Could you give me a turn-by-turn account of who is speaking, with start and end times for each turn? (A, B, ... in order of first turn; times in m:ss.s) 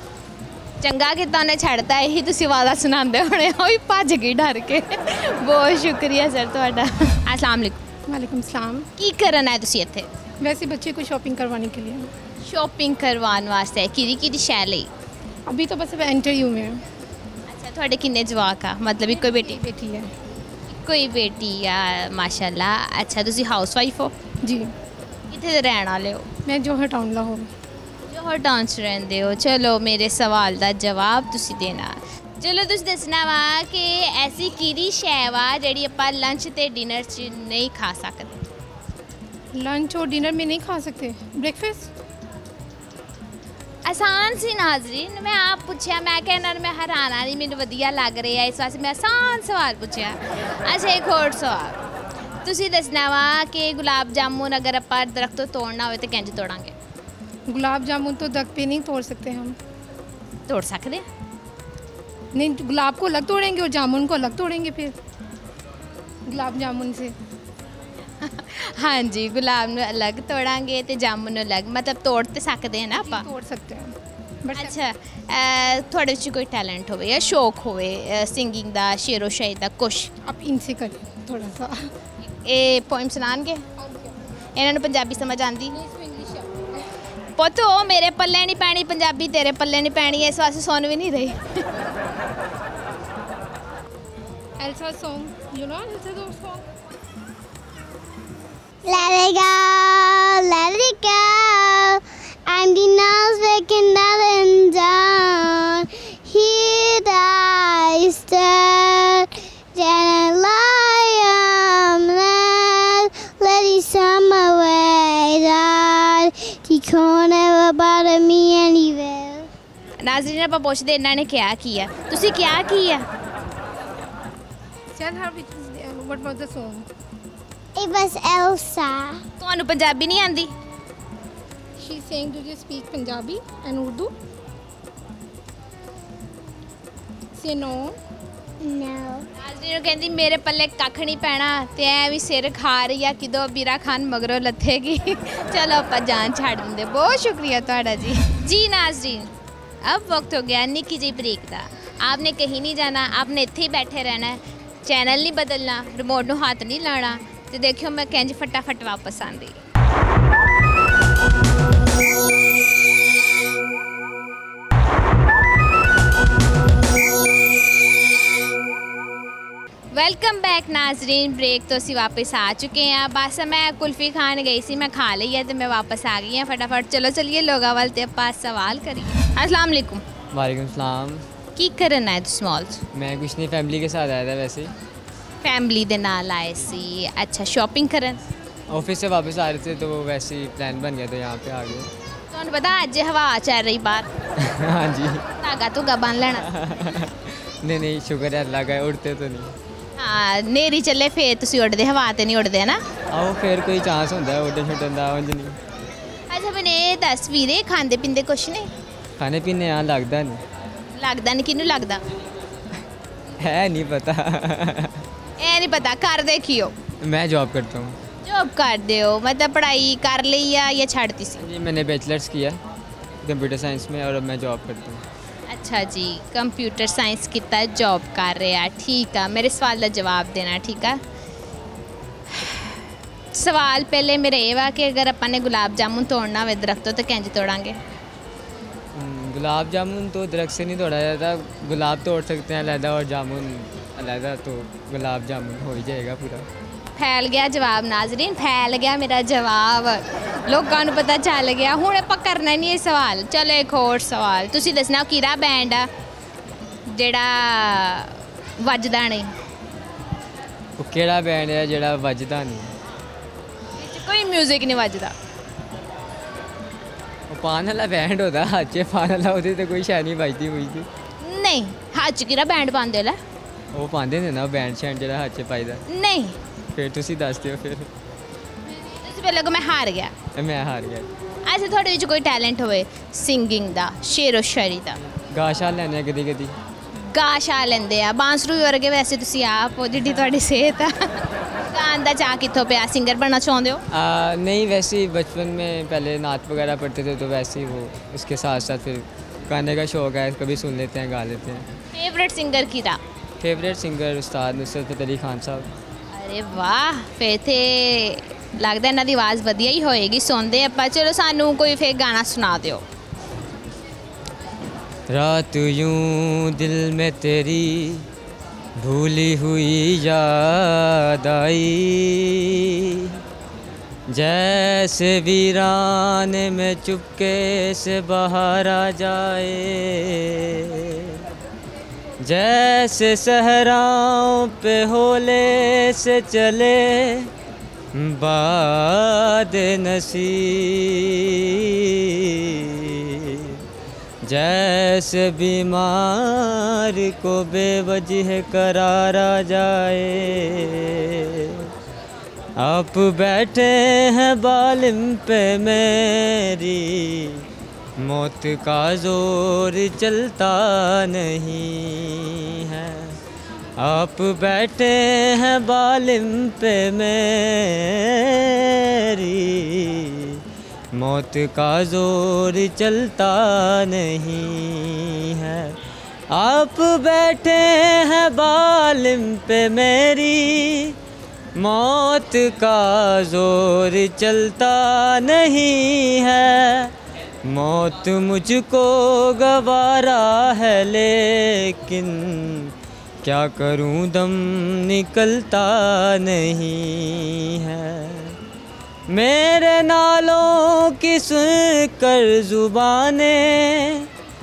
0:00.8-0:07.8 A
0:08.1-0:08.9 B
0:09.0-0:10.1 A
0:10.4-0:12.1 B
0:12.4-0:14.9 A
0:15.5-0:16.8 B
0:17.5-0:19.6 A
0:19.0-0:20.1 B
0:20.7-0:24.1 A
0:24.4-0:24.7 B
0:25.3-0:26.3 A
0:26.4-0:27.5 B
0:28.1-0:38.4 A
0:39.5-0:41.9 B
0:43.8-0:51.8 A
0:52.4-0:56.7 A
0:57.5-0:59.6 B
1:00.5-1:01.0 A
1:02.3-1:04.9 B
1:06.3-1:07.1 B
1:08.2-1:13.2 A
1:13.0-1:14.8 B
1:14.5-1:20.1 A
1:20.2-1:21.9 B
1:22.3-1:23.6 A
1:23.8-1:24.1 B
1:24.6-1:25.8 A
1:25.7-1:26.9 B
1:27.4-1:31.6 A
1:34.6-1:36.6 B
1:38.8-1:59.5 C
2:00.0-2:03.0 A
2:04.9-2:06.9 B
2:07.8-2:09.2 C
2:09.4-2:10.5 A
2:11.8-2:14.1 B
2:17.3-2:18.0 B
2:18.6-2:19.2 C
2:19.4-2:29.3 A
2:29.8-2:39.6 A
2:49.9-3:00.0 A
3:00.3-3:01.2 D
3:01.6-3:02.8 A
3:02.9-3:04.7 D
3:05.4-3:08.2 A
3:08.7-3:11.9 D
3:12.3-3:14.1 A
3:14.4-3:15.2 D
3:15.4-3:16.4 A
3:16.4-3:19.5 D
3:20.0-3:22.8 A
3:23.1-3:25.6 D
3:26.3-3:28.7 A
3:29.2-3:30.4 D
3:31.0-3:32.0 A
3:33.4-3:35.0 D
3:35.4-3:36.7 A
3:37.0-3:38.0 D
3:38.2-3:41.4 A
3:41.4-3:42.6 D
3:43.2-3:45.0 D
3:45.5-3:51.0 A
3:52.4-3:52.7 A
3:53.3-3:57.8 A
3:58.9-4:06.5 D
4:07.0-4:15.9 A
4:16.9-4:19.3 A
4:20.8-4:22.7 D
4:23.8-4:25.1 A
4:27.3-4:30.9 D
4:31.2-4:33.2 A
4:33.7-4:35.8 D
4:35.9-4:36.4 A
4:36.7-4:37.9 D
4:38.8-4:40.1 A
4:40.3-4:41.1 D
4:41.4-4:45.0 A
4:45.3-4:46.6 D
4:47.0-4:53.8 A
4:53.9-5:01.7 D
5:01.9-5:03.0 A
5:03.4-5:05.7 D
5:06.1-5:12.8 A
5:15.1-5:18.0 D
5:18.8-5:23.2 D
5:24.1-5:31.2 D
5:32.2-5:37.3 D
5:37.9-5:43.6 D
5:44.2-5:51.7 D
5:52.6-5:57.4 D
5:58.0-6:03.2 D
6:03.8-6:15.8 D
6:16.3-6:21.0 D
6:21.5-6:26.9 D
6:27.4-6:38.4 D
6:39.1-6:44.1 D